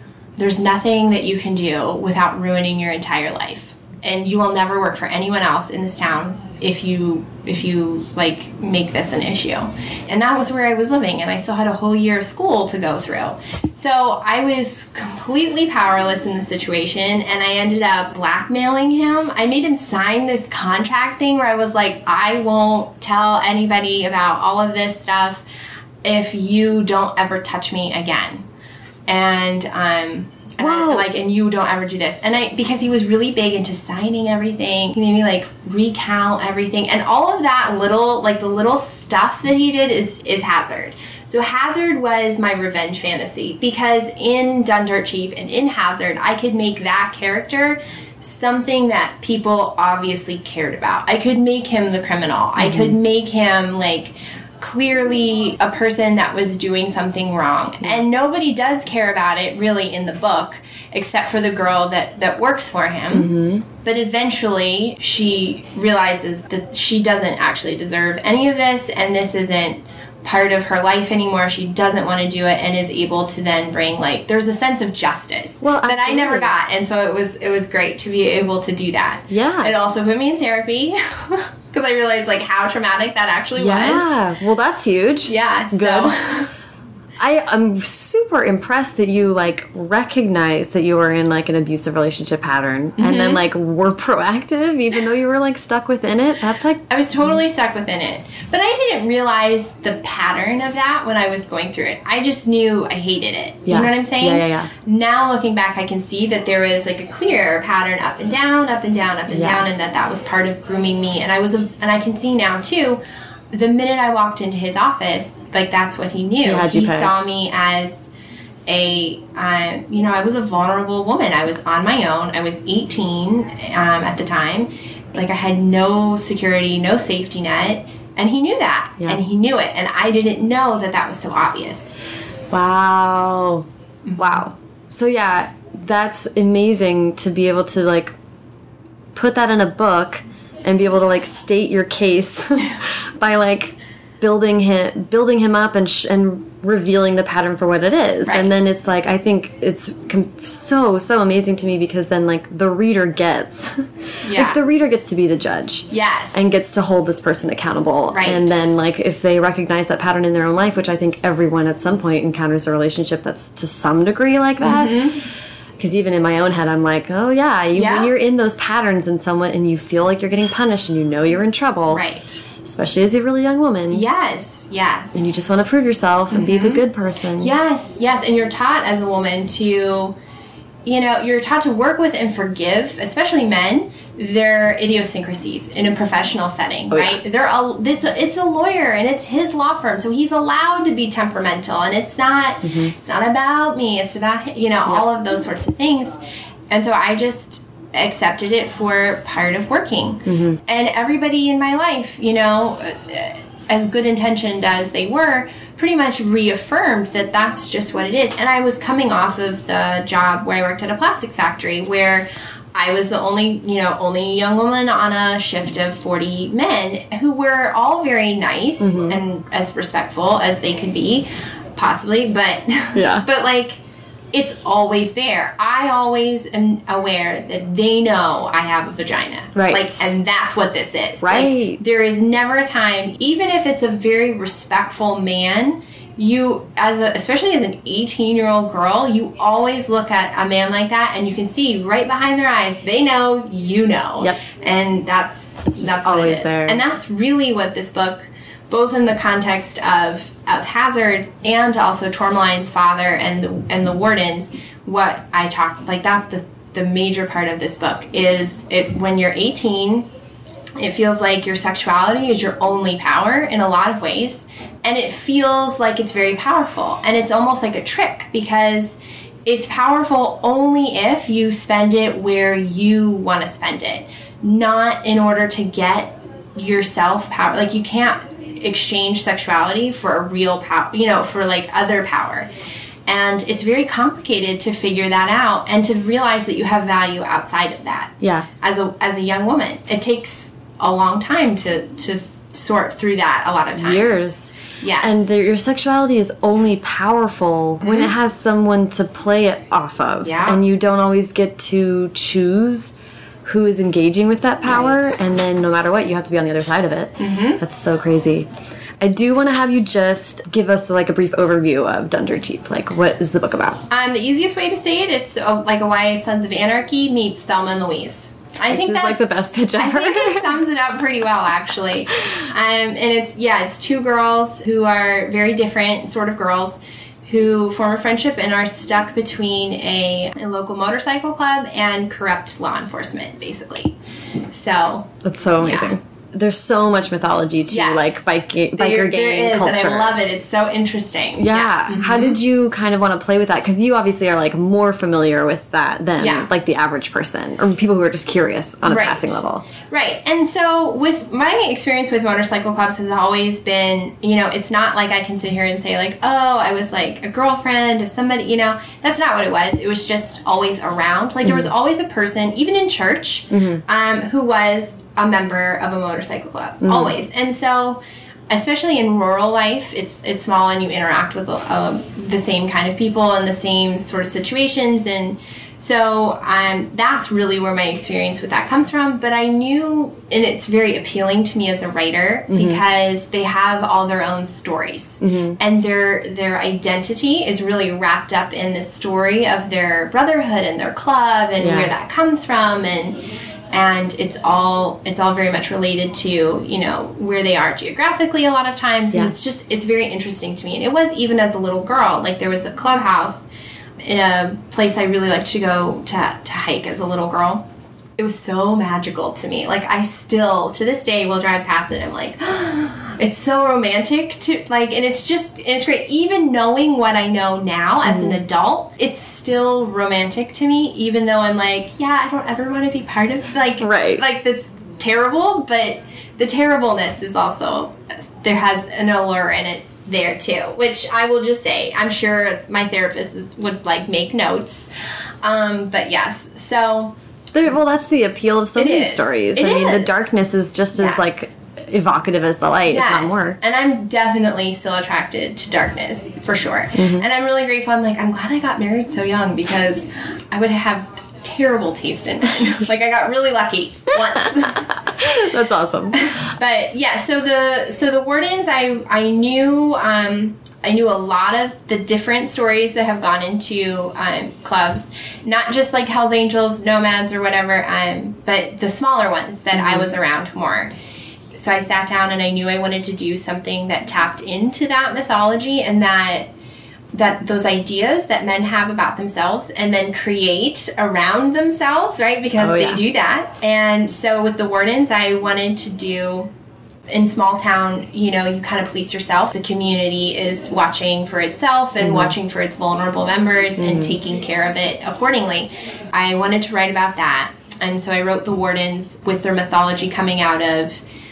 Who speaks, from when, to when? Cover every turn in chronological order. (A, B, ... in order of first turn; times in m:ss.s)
0:00.4-0:25.4 A
0:26.0-0:28.4 A
0:29.1-1:03.3 A
0:30.6-0:31.1 B
0:52.6-0:53.0 B
1:03.1-1:03.6 B
1:03.8-1:24.2 A
1:15.6-1:16.5 B
1:19.3-1:19.7 B
1:23.6-1:26.2 B
1:25.3-1:26.5 A
1:27.2-1:36.8 B
1:33.0-1:33.4 A
1:36.9-1:53.0 A
1:43.7-1:44.7 B
1:49.3-1:49.7 B
1:53.5-1:58.1 A
1:56.4-1:57.3 B
1:58.7-2:12.0 A
2:12.5-2:18.2 B
2:14.1-2:14.4 A
2:19.2-2:45.2 B
2:28.2-2:28.5 A
2:34.2-2:34.6 A
2:35.9-2:36.5 A
2:38.1-2:38.6 A
2:44.6-2:45.3 A
2:45.8-2:52.0 B
2:47.8-2:48.1 A
2:51.9-2:52.4 A
2:52.6-2:54.1 B
2:53.9-2:55.3 A
2:55.1-2:57.5 B
2:56.3-2:56.8 A
2:57.4-3:00.2 A
3:00.9-3:16.2 A
3:06.9-3:07.2 B
3:12.6-3:12.9 B
3:16.7-3:43.8 A
3:20.3-3:20.6 B
3:38.8-3:39.2 B
3:43.0-3:43.3 B
3:44.3-4:20.1 A
3:49.6-3:50.1 B
3:51.2-3:51.8 B
4:05.7-4:06.8 B
4:20.8-4:42.5 A
4:43.1-4:55.3 A
4:48.2-4:48.5 B
4:53.8-5:02.9 B
4:57.8-4:58.1 A
5:00.2-5:00.6 A
5:03.4-5:08.5 B
5:07.2-5:07.6 A
5:09.0-5:13.8 B
5:13.9-5:19.2 A
5:18.7-5:20.6 B
5:19.8-5:34.0 A
5:34.5-5:36.0 A
5:35.2-5:40.2 B
5:37.7-5:42.4 A
5:41.4-5:49.6 B
5:46.2-5:46.5 A
5:48.8-6:33.2 A
6:01.4-6:01.7 B
6:03.5-6:03.8 B
6:06.8-6:07.2 B
6:22.5-6:22.8 B
6:25.2-6:25.6 B
6:31.6-6:31.9 B
6:33.7-6:43.5 A
6:44.0-6:47.7 A
6:48.2-7:14.9 A
6:58.0-6:58.4 B
7:03.8-7:04.2 B
7:15.4-7:17.1 A
7:17.5-7:23.6 B
7:18.8-7:20.3 A
7:21.0-7:21.4 A
7:22.9-7:34.9 A
7:27.0-7:27.3 B
7:34.4-7:36.3 B
7:36.2-7:50.9 A
7:49.7-7:50.1 B
7:51.5-7:56.5 A
7:57.1-8:06.5 A
8:02.6-8:03.0 B
8:07.1-8:21.0 A
8:12.0-8:12.3 B
8:13.8-8:14.2 B